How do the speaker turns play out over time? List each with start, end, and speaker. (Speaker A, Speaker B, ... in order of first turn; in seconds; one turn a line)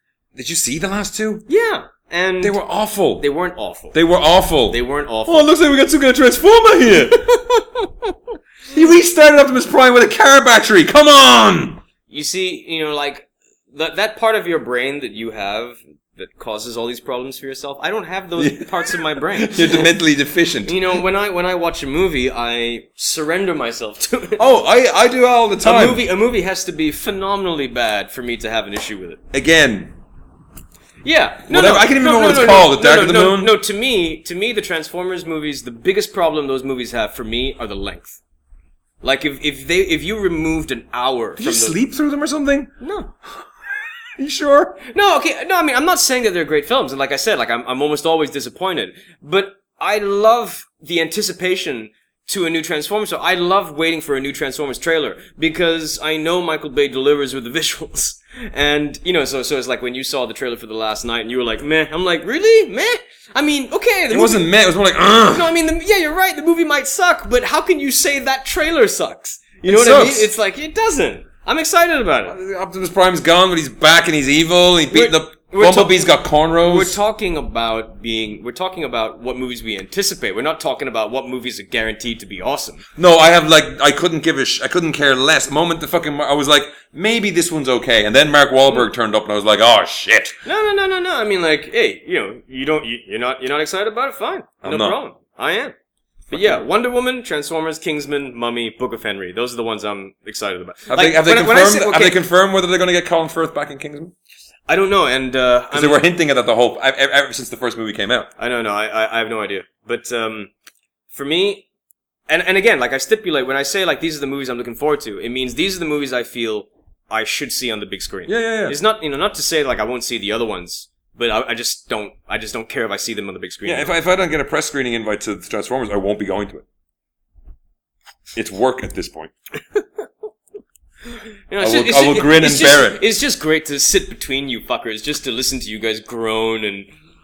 Speaker A: 0.4-1.5
Speaker B: 1.5-2.6
Speaker A: 2.4-3.3
Speaker B: 3.2-4.0
Speaker A: 3.9-7.3
Speaker B: 4.7-5.5
Speaker B: 7.1-8.1
Speaker A: 8.7-11.8
Speaker B: 12.1-19.9
Speaker A: 18.4-21.0
Speaker B: 20.6-24.4
Speaker A: 24.4-26.0
Speaker B: 25.6-29.2
Speaker A: 29.3-29.9
Speaker B: 31.0-38.2
Speaker A: 31.5-33.6
Speaker B: 39.0-41.8
Speaker A: 41.4-42.7
Speaker B: 42.8-43.1
Speaker A: 44.2-44.8
Speaker B: 44.8-64.5
Speaker A: 64.1-65.5
Speaker B: 65.3-72.4
Speaker A: 69.7-70.3
Speaker A: 72.3-77.0
Speaker B: 74.9-76.1
Speaker B: 76.6-82.8
Speaker A: 83.0-90.4
Speaker B: 90.5-95.7
Speaker A: 94.6-95.0
Speaker A: 96.3-96.6
Speaker B: 96.3-102.2
Speaker A: 100.9-104.1
Speaker B: 104.7-106.0
Speaker A: 105.7-108.3
Speaker B: 108.4-110.5
Speaker B: 111.1-111.7
Speaker B: 112.3-123.9
Speaker A: 118.3-118.8
Speaker A: 123.7-126.7
Speaker A: 128.3-129.3
Speaker B: 131.1-136.9
Speaker A: 131.6-133.0